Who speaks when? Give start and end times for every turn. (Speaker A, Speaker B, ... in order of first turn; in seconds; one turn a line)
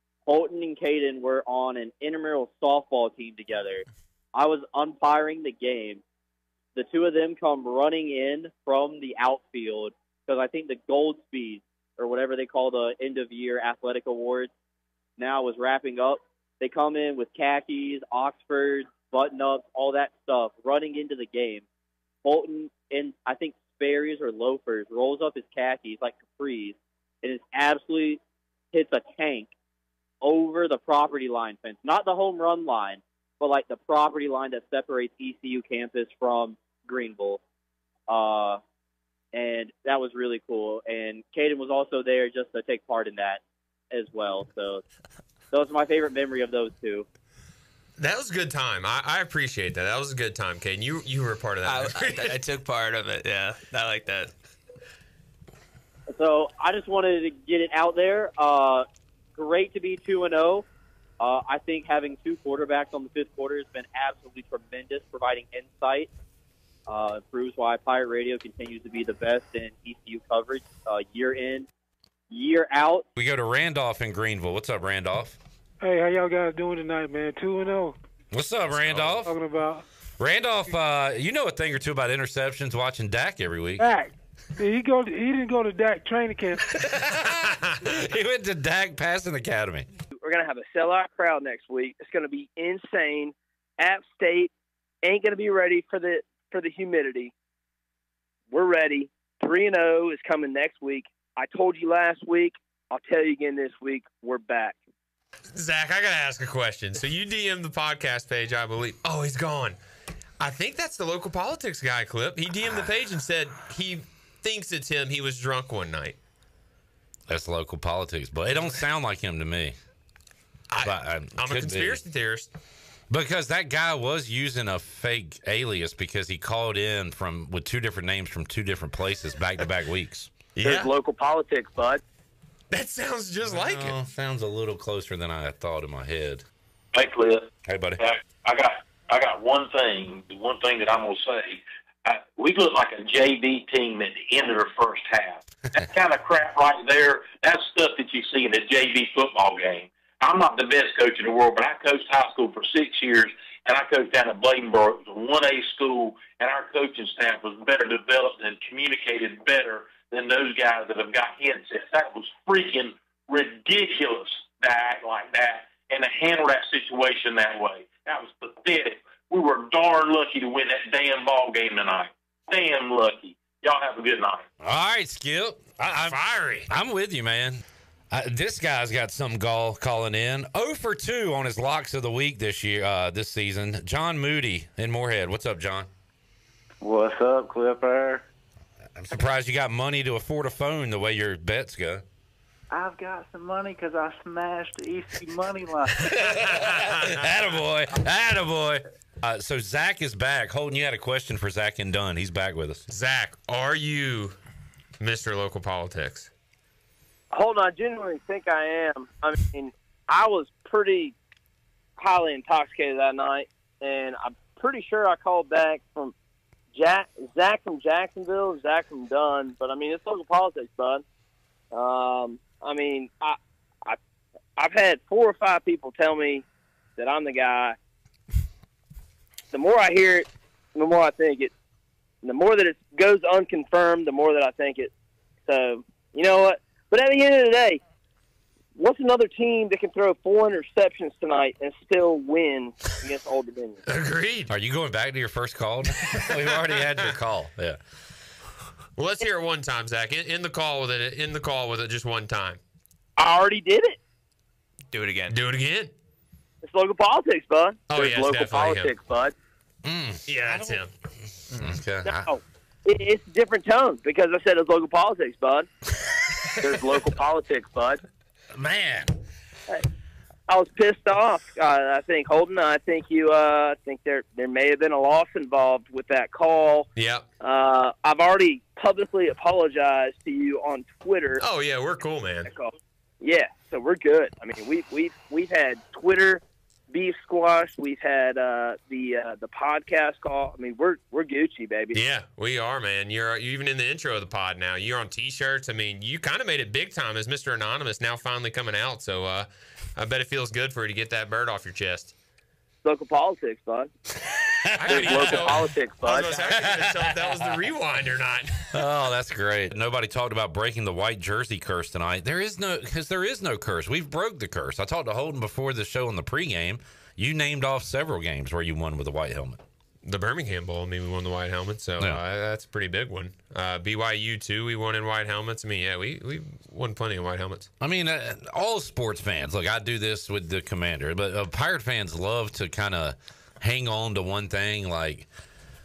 Speaker A: 0.3-6.0
Speaker A: 6.8-14.5
Speaker A: 15.2-21.6
Speaker A: 22.2-28.2
Speaker A: 28.7-29.5
Speaker A: 30.2-37.4
Speaker A: 38.1-38.6
Speaker A: 39.3-44.8
Speaker A: 45.5-47.1
Speaker B: 48.0-52.4
Speaker C: 51.6-54.3
Speaker A: 56.1-58.8
Speaker A: 59.4-60.6
Speaker A: 61.2-66.1
Speaker A: 66.9-71.7
Speaker A: 72.3-73.0
Speaker D: 73.2-75.4
Speaker E: 75.8-78.0
Speaker D: 78.3-79.4
Speaker B: 78.7-79.2
Speaker E: 79.2-79.8
Speaker D: 80.2-83.9
Speaker E: 83.8-86.6
Speaker D: 86.7-89.9
Speaker B: 87.2-87.9
Speaker F: 90.1-94.5
Speaker F: 95.0-97.3
Speaker F: 98.5-104.8
Speaker B: 105.5-109.8
Speaker B: 110.4-116.2
Speaker D: 112.7-112.9
Speaker D: 117.3-119.8
Speaker B: 120.7-122.5
Speaker D: 120.8-122.0
Speaker D: 123.1-130.3
Speaker B: 130.6-130.9
Speaker F: 130.6-132.0
Speaker B: 132.7-134.0
Speaker D: 133.4-136.4
Speaker G: 136.9-137.5
Speaker D: 137.7-138.0
Speaker G: 138.0-174.4
Speaker D: 174.6-185.9
Speaker B: 175.9-176.7
Speaker H: 186.8-188.2
Speaker D: 188.9-192.0
Speaker H: 192.7-195.9
Speaker B: 196.0-197.2
Speaker D: 196.3-202.8
Speaker B: 202.9-204.4
Speaker B: 205.0-206.3
Speaker F: 207.3-211.1
Speaker F: 212.0-216.1
Speaker F: 216.7-221.0
Speaker F: 221.7-224.0
Speaker F: 224.6-226.4
Speaker F: 227.0-227.8
Speaker F: 229.5-231.5
Speaker F: 232.2-234.9
Speaker F: 235.5-237.8
Speaker F: 238.8-243.8
Speaker B: 243.8-244.5
Speaker D: 244.5-247.8
Speaker B: 246.0-246.3
Speaker B: 249.0-252.6
Speaker F: 253.2-254.0
Speaker C: 254.9-255.4
Speaker B: 255.3-255.9
Speaker F: 256.6-259.3
Speaker B: 257.9-258.9
Speaker D: 259.8-260.6
Speaker B: 260.3-260.9
Speaker D: 261.5-262.3
Speaker F: 262.0-265.7
Speaker F: 266.6-268.0
Speaker D: 268.5-269.1
Speaker F: 270.5-276.9
Speaker B: 276.9-277.2
Speaker F: 277.4-281.4
Speaker B: 281.4-282.5
Speaker F: 282.4-292.0
Speaker B: 291.9-302.1
Speaker F: 302.8-303.9
Speaker D: 304.6-305.6
Speaker B: 304.8-308.8
Speaker F: 304.9-306.5
Speaker D: 306.5-307.6
Speaker D: 308.7-319.6
Speaker B: 320.0-327.7
Speaker D: 327.8-335.3